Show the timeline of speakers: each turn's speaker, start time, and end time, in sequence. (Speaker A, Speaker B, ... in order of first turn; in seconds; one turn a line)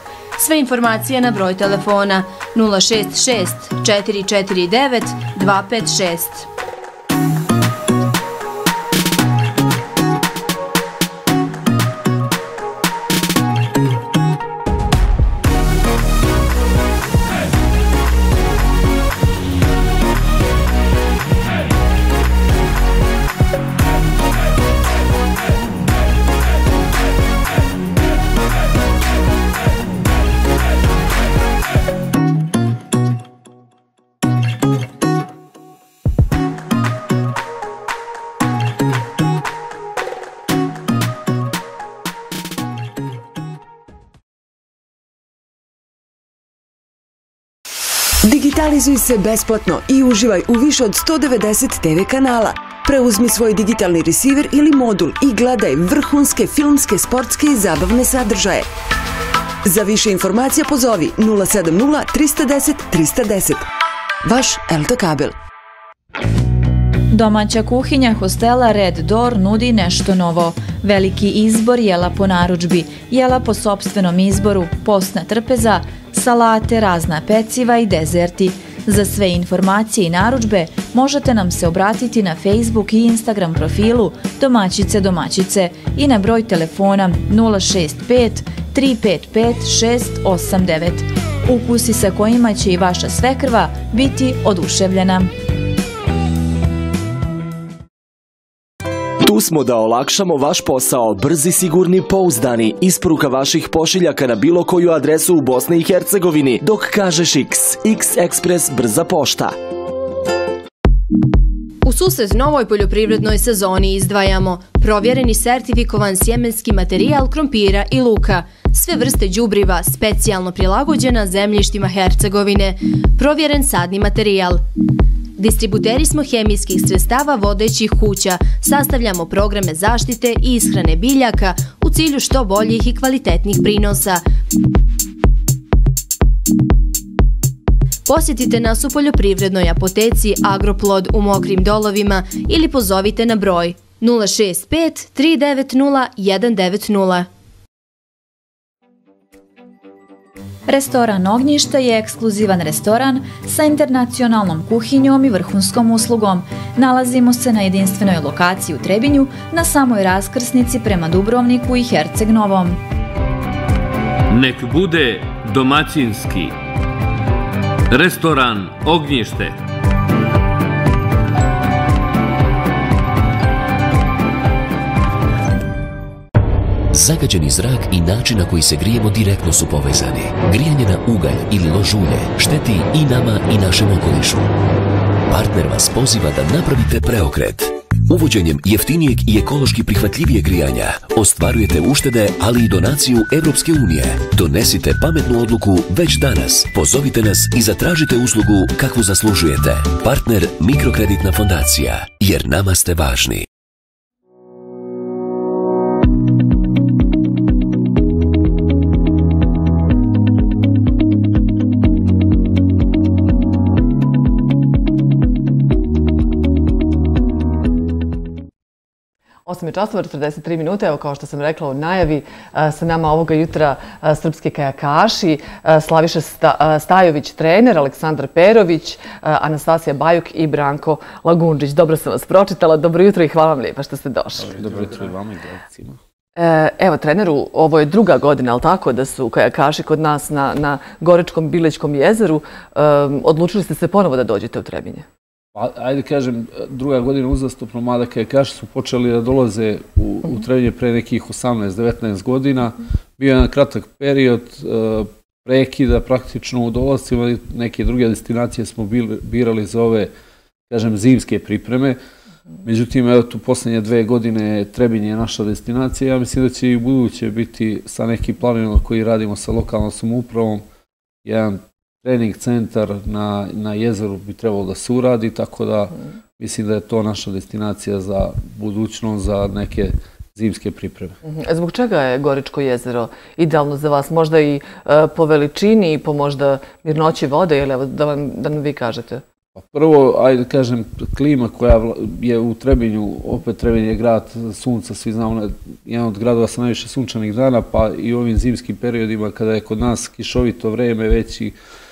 Speaker A: 0.4-6.5
Speaker B: 48.2-58.7
Speaker B: 59.6-63.6
Speaker B: 64.2-65.3
Speaker C: 67.1-95.3
Speaker D: 99.2-109.5
Speaker A: 111.8-124.6
Speaker A: 125.4-134.2
Speaker A: 138.1-147.3
Speaker C: 150.7-162.8
Speaker E: 164.3-166.6
Speaker E: 167.9-169.6
Speaker F: 176.9-184.5
Speaker F: 185.3-203.5
Speaker G: 219.5-234.6
Speaker H: 234.4-236.0
Speaker G: 236.4-245.1
Speaker H: 245.6-260.1
Speaker H: 260.7-262.0
Speaker H: 262.6-270.6
Speaker H: 271.2-281.2
Speaker G: 281.2-289.2
Speaker H: 289.6-301.5